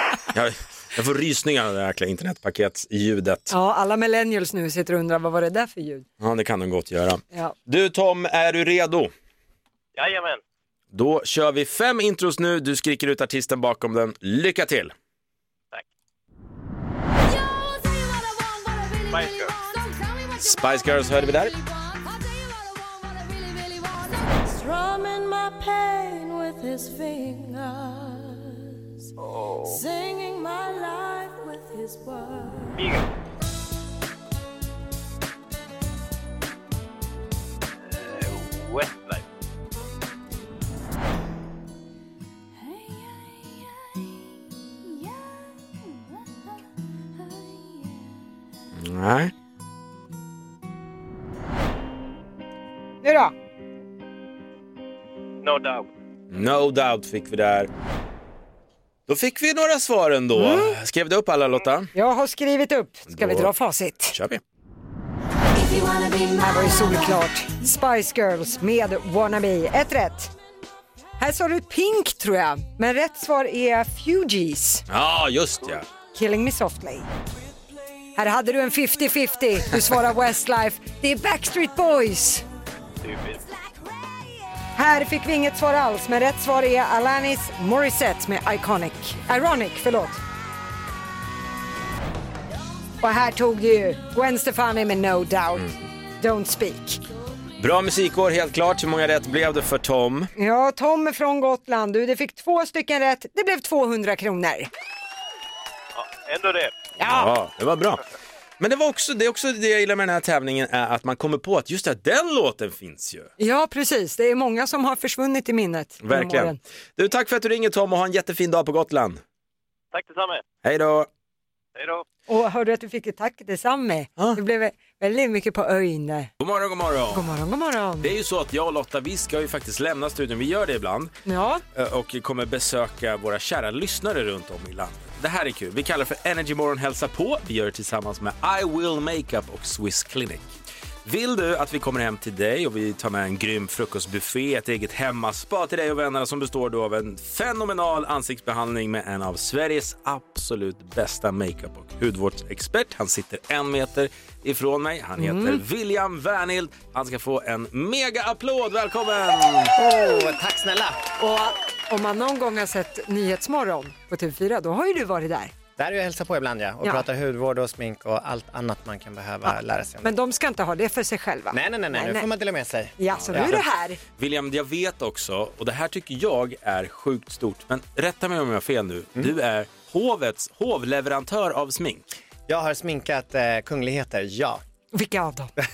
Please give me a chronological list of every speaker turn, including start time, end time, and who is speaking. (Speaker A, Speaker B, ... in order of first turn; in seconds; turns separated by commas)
Speaker A: 0.3-3.5, Speaker B: 3.5-6.0, Speaker A: 6.2-9.1, Speaker C: 9.9-10.4, Speaker A: 10.9-14.9, Speaker D: 17.2-29.1, Speaker C: 19.1-19.5, Speaker A: 20.4-21.5, Speaker D: 29.6-32.8, Speaker C: 32.8-33.1, Speaker C: 37.8-39.2, Speaker D: 42.5-46.6, Speaker D: 47.1-48.4, Speaker A: 48.8-49.3, Speaker B: 53.0-53.3, Speaker C: 55.4-55.9, Speaker A: 56.3-57.7, Speaker A: 59.1-61.9, Speaker B: 60.3-60.8, Speaker B: 61.9-64.1, Speaker A: 63.1-63.5, Speaker A: 64.1-64.4, Speaker B: 66.2-70.3, Speaker B: 71.2-74.8, Speaker A: 74.9-75.8, Speaker B: 76.1-77.1, Speaker B: 78.2-82.4, Speaker C: 83.0-83.4, Speaker B: 84.8-90.2, Speaker B: 93.0-97.0, Speaker A: 97.6-100.3, Speaker B: 100.4-104.7, Speaker C: 105.9-106.7, Speaker B: 107.0-107.3, Speaker A: 107.0-108.0, Speaker A: 108.6-113.3, Speaker B: 113.4-116.6, Speaker A: 116.0-119.2, Speaker C: 119.9-120.4, Speaker A: 120.6-121.1, Speaker C: 121.8-122.0, Speaker B: 122.3-126.3, Speaker A: 126.4-127.3, Speaker B: 127.1-128.1, Speaker A: 128.0-131.1, Speaker B: 131.2-131.6, Speaker A: 131.7-140.5, Speaker A: 141.0-159.7, Speaker B: 155.2-155.6, Speaker E: 159.8-161.0, Speaker B: 161.2-165.5, Speaker E: 165.8-170.1, Speaker B: 169.4-172.3, Speaker E: 171.5-173.6, Speaker B: 173.0-174.0, Speaker A: 173.1-173.6, Speaker A: 174.2-182.0, Speaker E: 182.5-184.6, Speaker B: 184.9-185.5